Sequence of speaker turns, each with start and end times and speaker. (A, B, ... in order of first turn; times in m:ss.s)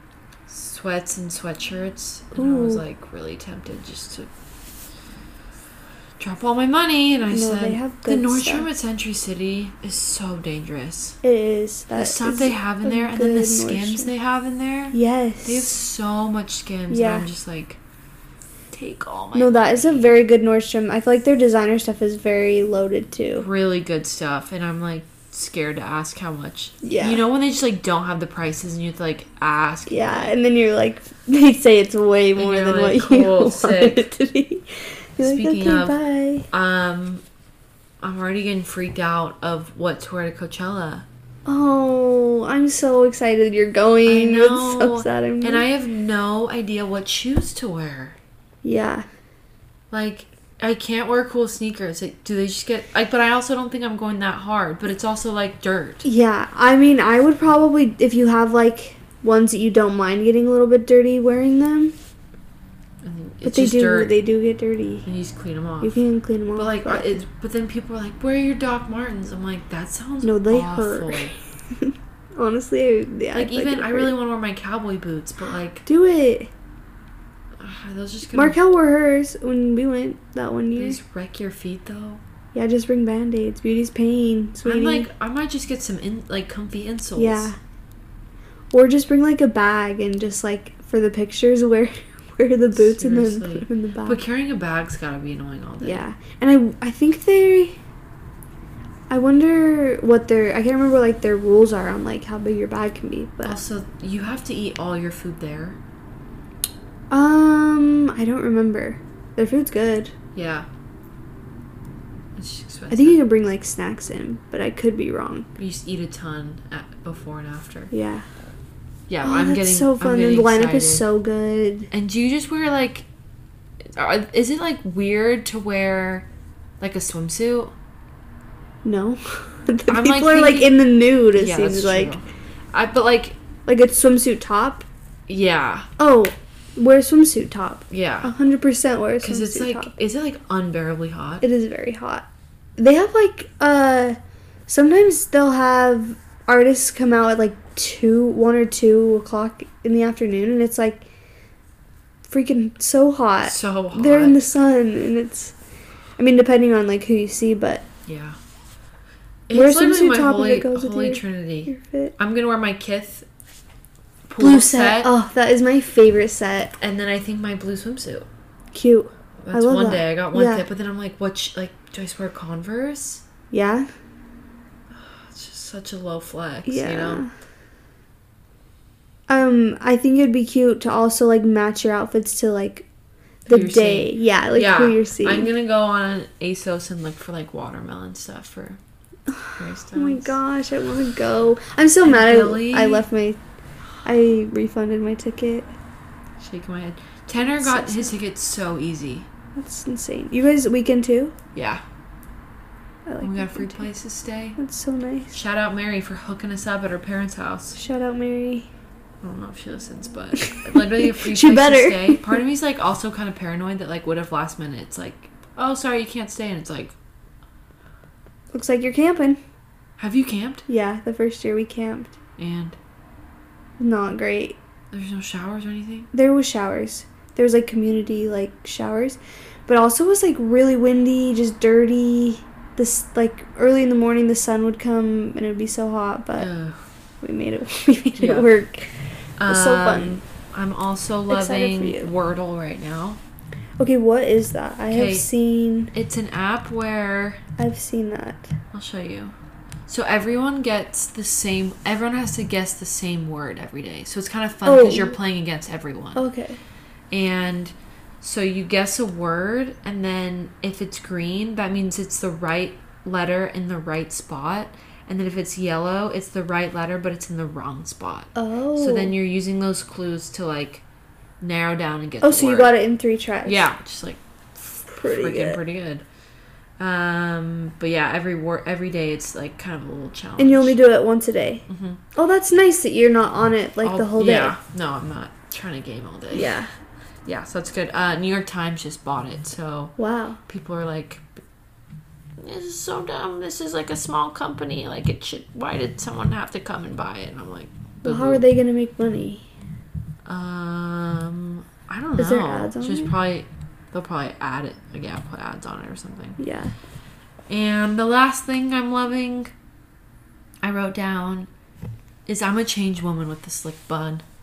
0:00.5-0:04.3 A
0:02.3-0:02.8 B
0:06.2-0:11.2 A
0:07.3-0:08.7 B
0:11.2-0:14.1 B
0:11.9-0:17.8 A
0:14.9-0:15.8 B
0:16.9-0:17.3 B
0:18.7-0:20.2 A
0:19.3-0:23.5 B
0:23.4-0:30.3 A
0:26.8-0:27.2 B
0:29.9-0:36.5 B
0:32.4-0:34.1 A
0:35.2-0:36.0 A
0:36.5-0:37.2 A
0:38.0-0:41.0 A
0:41.4-0:45.6 B
0:44.0-0:48.2 A
0:48.6-0:49.0 B
0:49.9-0:56.0 A
0:56.0-1:01.9 B
1:03.0-1:04.1 A
1:03.4-1:05.1 B
1:05.0-1:06.0 A
1:05.8-1:07.2 B
1:06.6-1:11.3 A
1:10.2-1:14.1 B
1:13.3-1:15.8 A
1:15.8-1:16.5 B
1:17.6-1:18.6 A
1:18.3-1:21.0 B
1:20.8-1:22.2 A
1:22.5-1:25.1 B
1:24.6-1:27.5 A
1:27.2-1:27.6 B
1:28.7-1:34.2 B
1:32.7-1:36.0 A
1:35.8-1:37.8 B
1:39.1-1:43.6 B
1:43.4-1:45.8 A
1:47.1-1:50.1 B
1:50.3-1:50.7 A
1:52.4-1:53.2 A
1:52.9-1:55.5 B
1:55.6-1:57.9 A
1:57.9-1:58.2 B
1:59.1-2:01.0 A
1:59.2-2:01.9 B
2:01.9-2:03.0 A
2:03.9-2:06.2 A
2:06.8-2:07.7 A
2:08.8-2:12.1 B
2:09.9-2:10.8 A
2:11.3-2:13.4 A
2:13.7-2:14.8 B
2:15.3-2:15.9 A
2:16.0-2:19.9 B
2:17.9-2:18.3 A
2:19.2-2:21.4 A
2:21.4-2:22.2 B
2:22.8-2:31.1 B
2:32.3-2:35.5 B
2:33.4-2:34.4 A
2:36.2-2:37.8 B
2:38.0-2:38.4 A
2:39.5-2:43.2 A
2:39.5-2:42.1 B
2:44.3-2:45.1 A
2:44.4-2:46.7 B
2:46.8-2:48.3 A
2:48.7-2:50.6 B
2:49.4-2:53.2 A
2:53.5-2:53.9 B
2:54.9-2:57.2 A
2:56.6-2:57.3 B
2:59.3-3:02.8 B
3:03.5-3:05.5 B
3:03.5-3:08.8 A
3:09.3-3:13.4 B
3:09.6-3:10.4 A
3:12.0-3:13.0 A
3:14.0-3:15.7 B
3:16.4-3:19.3 A
3:17.4-3:18.1 B
3:19.6-3:21.3 B
3:21.5-3:21.8 A
3:23.0-3:23.9 B
3:23.2-3:24.6 A
3:24.6-3:25.4 B
3:25.3-3:27.8 A
3:27.7-3:28.7 B
3:29.2-3:36.9 A
3:30.4-3:32.4 B
3:38.5-3:39.4 B
3:40.0-3:40.6 A
3:40.7-3:42.2 B
3:42.4-3:42.8 A
3:43.8-3:44.6 B
3:44.9-3:46.1 A
3:46.1-3:56.5 B
3:56.4-3:56.8 A
3:57.2-3:58.9 B
3:58.2-3:58.5 A
3:59.4-4:03.2 A
3:59.5-4:00.2 B
4:01.3-4:02.1 B
4:03.8-4:05.9 B
4:04.9-4:05.2 A
4:05.9-4:07.4 A
4:07.6-4:08.5 B
4:08.7-4:09.3 A
4:09.9-4:16.2 A
4:14.6-4:15.2 B
4:16.1-4:16.6 B
4:17.1-4:30.8 A
4:28.3-4:29.1 B
4:31.4-4:32.7 A
4:32.2-4:33.7 B
4:33.4-4:36.0 A
4:34.9-4:35.6 B
4:36.8-4:40.7 A
4:40.4-4:44.6 B
4:41.7-4:42.0 A
4:43.8-4:46.5 A
4:46.3-4:46.7 B
4:47.2-4:49.9 A
4:50.0-4:50.4 B
4:50.5-4:51.2 A
4:52.4-4:58.4 A
4:58.0-4:59.5 B
5:00.2-5:06.4 A
5:02.2-5:03.1 B
5:06.4-5:06.7 B
5:07.5-5:09.5 A
5:10.6-5:11.5 A
5:12.2-5:14.2 A